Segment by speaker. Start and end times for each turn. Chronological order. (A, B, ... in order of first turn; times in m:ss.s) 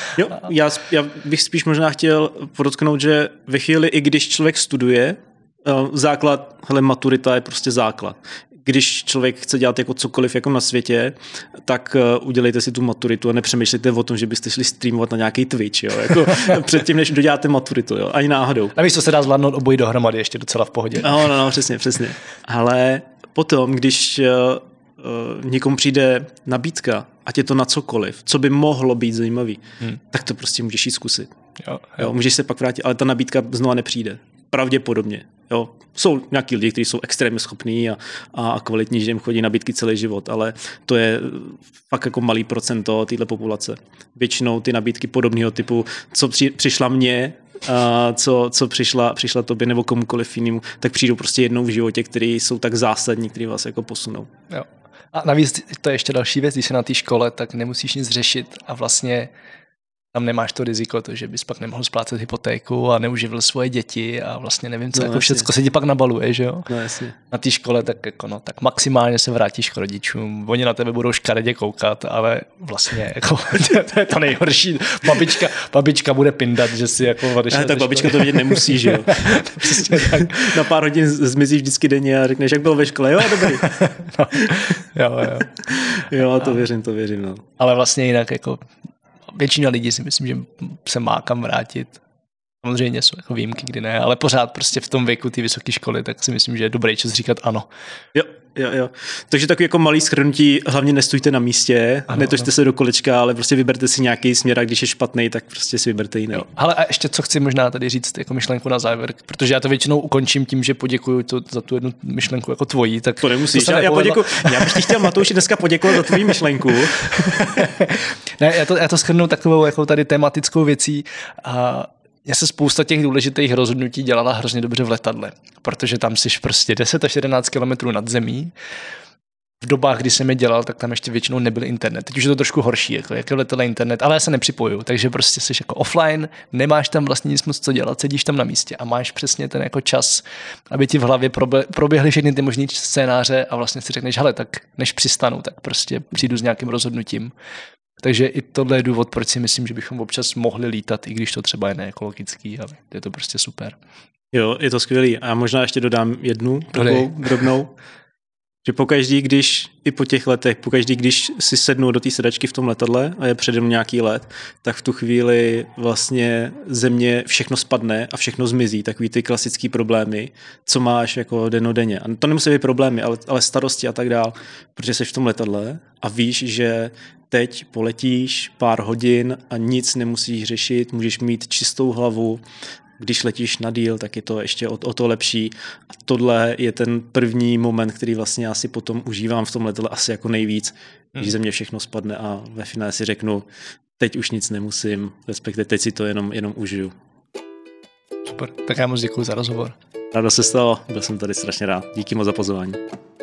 0:00.2-0:18.8 A
0:18.8-0:21.2 B
0:21.0-0:31.3 A
0:31.6-0:32.0 B
0:32.0-0:54.3 A
0:54.5-0:59.3 B
1:00.1-1:06.7 B
1:05.0-1:05.5 A
1:06.7-1:07.2 A
1:07.3-1:20.6 B
1:17.5-1:23.7 A
1:23.4-1:25.5 B
1:25.4-1:27.4 A
1:27.6-1:28.6 B
1:29.3-1:32.0 B
1:32.6-1:37.7 B
1:38.1-1:46.5 A
1:42.1-1:42.4 B
1:46.3-1:55.1 B
1:53.2-1:57.5 A
1:57.1-2:08.5 B
2:09.6-2:27.3 B
2:28.0-2:33.8 B
2:34.3-2:37.7 A
2:36.8-2:37.2 B
2:38.6-3:02.4 A
3:03.0-3:05.5 A
3:06.0-3:13.5 A
3:14.0-3:16.9 A
3:18.3-3:19.8 B
3:20.1-3:22.8 A